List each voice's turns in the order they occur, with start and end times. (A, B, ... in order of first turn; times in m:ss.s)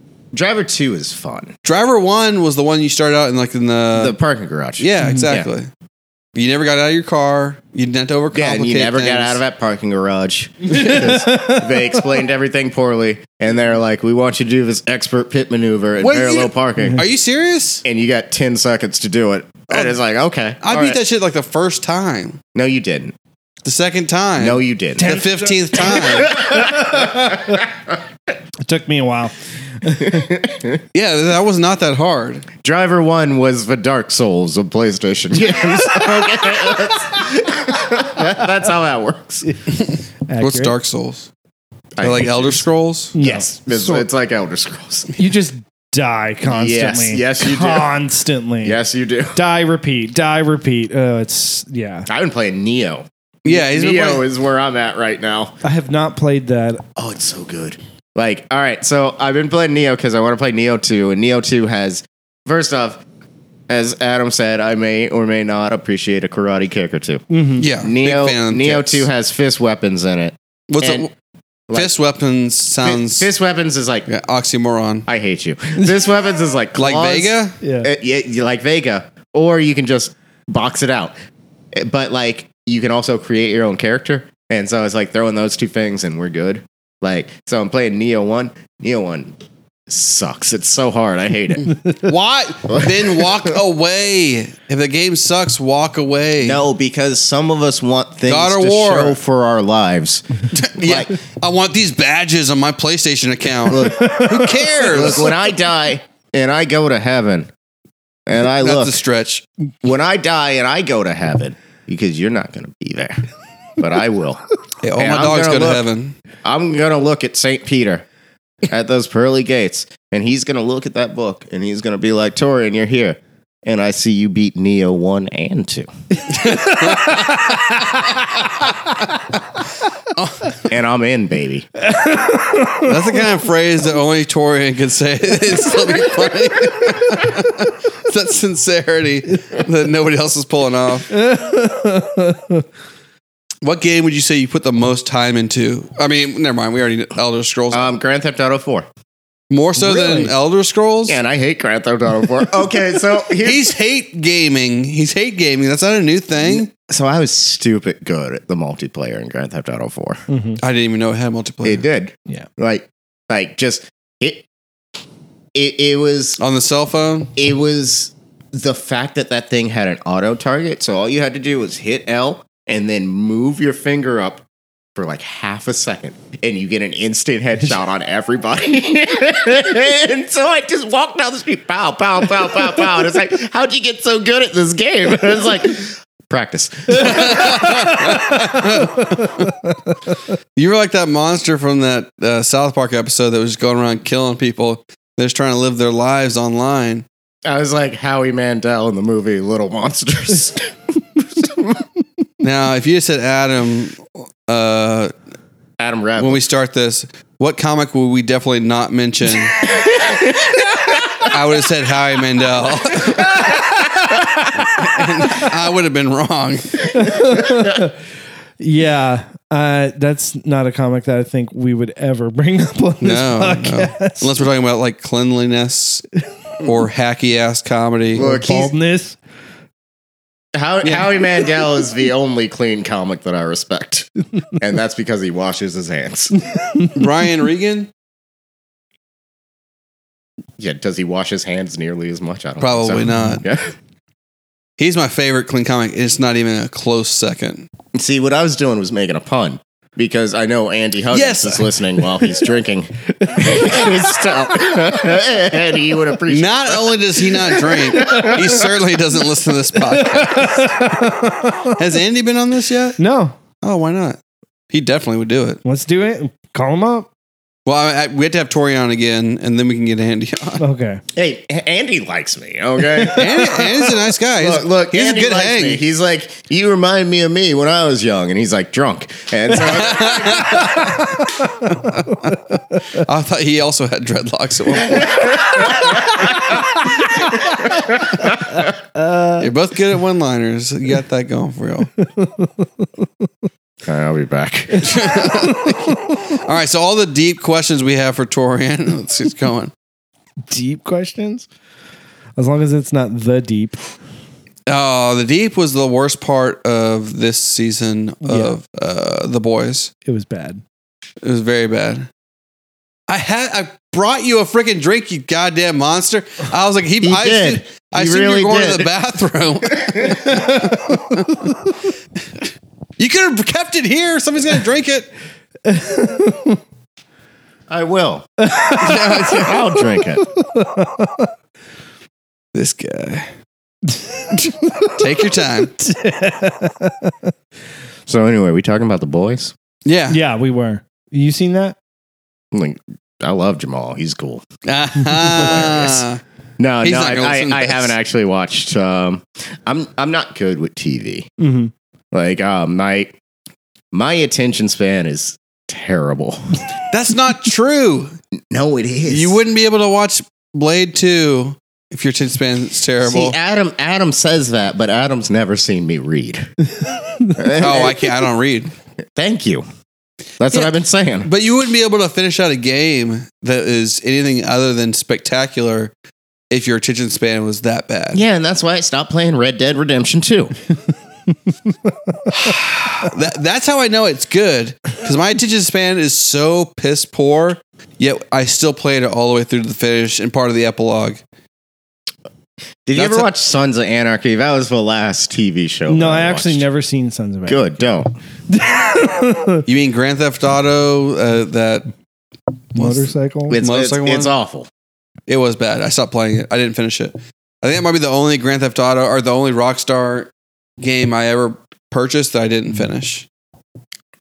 0:00.3-0:01.6 A
0:01.6-0:04.2 B
0:03.9-0:05.5 A
0:04.8-0:05.7 B
0:05.0-0:05.3 C
0:06.3-0:09.4 B
0:08.3-0:17.0 A
0:10.8-0:11.6 C
0:16.0-0:17.8 B
0:17.8-0:21.0 A
0:20.6-0:22.4 B
0:22.5-0:23.1 A
0:23.6-0:26.4 B
0:24.4-0:25.2 A
0:25.0-0:27.4 C
0:25.9-0:27.6 A
0:28.6-0:30.2 C
0:30.0-0:30.8 A
0:30.9-0:32.5 B
0:32.6-0:39.5 A
0:39.8-0:41.3 B
0:40.3-0:40.7 C
0:42.0-0:45.1 A
0:42.0-0:43.1 B
0:43.1-0:44.1 C
0:45.2-0:48.8 C
0:46.4-0:48.0 A
0:48.6-0:49.4 A
0:49.3-0:52.1 C
0:52.1-0:55.5 A
0:53.4-0:54.2 B
0:55.6-0:56.8 C
0:57.0-1:03.0 A
1:03.7-1:11.1 A
1:07.3-1:07.6 C
1:07.6-1:09.0 B
1:10.7-1:11.1 B
1:11.7-1:13.3 B
1:12.8-1:14.1 A
1:14.1-1:15.0 B
1:15.1-1:21.1 A
1:16.8-1:17.6 B
1:17.6-1:17.9 C
1:21.7-1:29.3 A
1:29.9-1:31.8 A
1:31.8-1:36.6 B
1:32.7-1:33.5 A
1:36.4-1:40.2 A
1:38.3-1:39.2 B
1:40.5-1:45.3 B
1:40.8-1:41.1 A
1:43.7-1:44.3 A
1:43.9-1:44.9 C
1:44.8-1:47.5 A
1:48.2-1:49.0 A
1:48.6-1:49.4 B
1:49.8-1:53.2 A
1:53.8-1:54.4 A
1:54.8-1:56.1 B
1:55.0-1:55.8 A
1:56.4-1:58.0 A
1:58.7-2:05.9 A
2:06.3-2:08.7 B
2:06.5-2:07.5 C
2:10.1-2:10.6 B
2:10.7-2:11.6 A
2:11.8-2:13.0 C
2:12.8-2:21.2 B
2:21.1-2:22.6 C
2:23.6-2:27.9 B
2:27.7-2:28.9 A
2:29.5-2:31.2 B
2:29.8-2:30.3 C
2:31.1-2:33.7 A
2:33.3-2:36.7 B
2:36.4-2:40.2 A
2:40.3-2:40.6 C
2:40.6-2:41.8 B
2:41.6-2:44.4 A
2:45.5-2:46.4 A
2:46.4-2:47.3 B
2:47.4-2:54.4 A
2:55.0-3:08.4 A
3:06.9-3:09.5 B
3:08.6-3:09.4 C
3:10.6-3:17.0 B
3:17.4-3:21.8 A
3:22.4-3:25.1 B
3:25.8-3:26.4 A
3:26.2-3:29.6 B
3:29.6-3:31.3 A
3:31.2-3:37.3 B
3:33.0-3:34.6 A
3:36.9-3:37.9 C
3:38.6-3:44.3 C
3:43.0-3:46.1 B
3:46.6-3:48.3 B
3:48.1-3:48.7 A
3:48.2-3:49.2 C
3:50.5-3:56.4 A
3:50.8-3:51.1 B
3:56.6-3:56.9 C
3:56.9-3:57.9 B
4:00.6-4:03.7 A
4:02.6-4:03.4 B
4:04.8-4:07.7 B
4:07.9-4:18.7 A
4:11.1-4:11.7 B
4:13.3-4:13.8 C
4:16.3-4:20.9 B
4:18.0-4:18.3 C
4:19.8-4:21.8 C
4:21.7-4:23.0 B
4:23.0-4:23.4 C
4:23.6-4:24.2 B
4:24.7-4:25.6 B
4:25.6-4:27.1 C
4:27.6-4:30.6 B
4:30.6-4:31.0 C
4:31.1-4:33.6 A
4:33.0-4:33.6 C
4:33.0-4:35.8 B
4:34.4-4:40.8 A
4:39.6-4:46.1 B
4:40.6-4:42.4 C
4:44.9-4:45.8 A
4:47.7-4:48.2 A
4:49.0-4:49.4 C
4:49.4-4:51.9 B
4:52.0-4:52.8 C
4:53.8-4:55.3 A
4:54.8-4:59.7 B
4:55.3-4:56.1 C
5:00.5-5:01.5 C
5:02.4-5:03.8 C
5:04.7-5:09.9 B
5:08.2-5:08.5 C
5:10.0-5:10.6 C
5:11.2-5:12.1 B
5:13.1-5:21.5 B
5:17.0-5:18.9 A
5:20.3-5:20.8 C
5:23.0-5:25.1 B
5:25.6-5:26.6 C
5:27.7-5:28.3 A
5:28.4-5:29.5 C
5:28.7-5:29.6 B
5:29.3-5:30.2 A
5:30.3-5:31.3 C
5:32.5-5:33.3 B
5:34.1-5:35.0 C
5:34.8-5:35.7 B
5:35.8-5:37.1 C
5:38.1-5:39.5 A
5:39.8-5:40.2 B
5:40.1-5:41.8 C
5:42.5-5:44.4 A
5:44.7-5:46.2 B
5:45.1-5:46.0 A
5:46.6-5:51.3 A
5:46.8-5:47.9 B
5:51.4-5:51.7 C
5:52.1-5:53.1 A
5:53.9-5:56.6 A
5:56.9-5:58.1 B
5:58.5-5:59.4 A
5:59.1-6:03.3 B
6:03.0-6:06.5 A
6:07.3-6:08.2 A
6:07.5-6:08.7 B
6:09.2-6:09.6 A
6:10.4-6:11.3 A
6:11.2-6:15.9 B
6:16.5-6:18.2 B
6:18.1-6:20.5 A
6:22.1-6:22.5 C
6:22.3-6:31.2 B
6:32.8-6:36.6 A
6:32.9-6:33.3 B
6:35.9-6:37.7 C
6:37.5-6:38.1 A
6:38.5-6:39.6 C
6:39.7-6:41.9 B
6:42.7-6:43.6 C
6:42.7-6:44.3 B
6:43.5-6:44.7 A
6:45.3-6:53.2 B